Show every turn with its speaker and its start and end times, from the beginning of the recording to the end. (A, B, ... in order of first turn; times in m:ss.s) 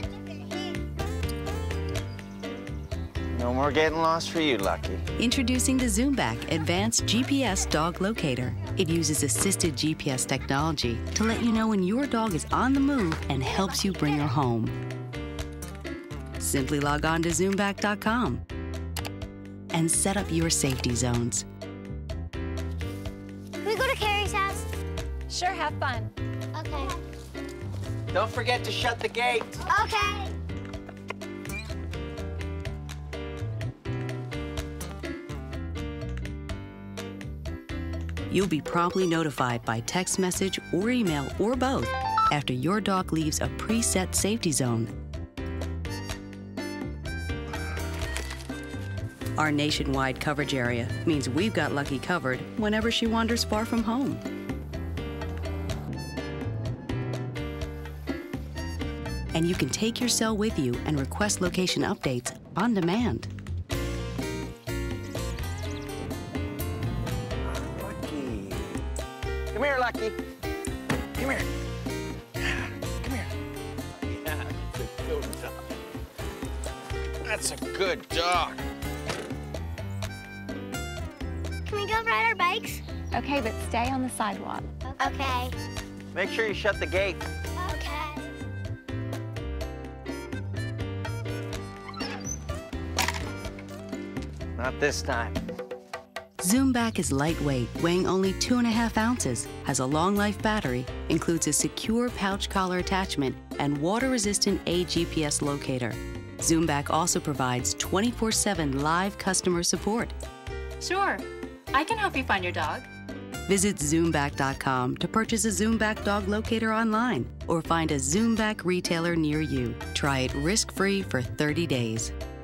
0:03.3-0:05.0 A
0:05.2-0:14.8 B
0:16.4-0:18.4 B
0:19.7-0:21.5 B
0:23.6-0:24.7 C
0:25.3-0:26.1 D
0:26.5-0:27.0 C
0:28.1-0:29.6 A
0:29.7-0:30.4 C
0:38.3-0:44.9 B
0:49.4-0:54.2 B
0:59.3-1:03.3 B
1:07.5-1:08.8 A
1:09.5-1:10.2 A
1:11.2-1:11.5 A
1:12.4-1:13.3 A
1:14.1-1:15.6 A
1:17.2-1:18.6 A
1:21.7-1:22.8 C
1:23.1-1:24.8 D
1:24.8-1:25.6 C
1:26.1-1:27.2 A
1:27.6-1:28.3 C
1:34.6-1:35.4 A
1:36.4-1:50.2 B
1:50.8-1:52.9 E
1:53.5-2:02.1 B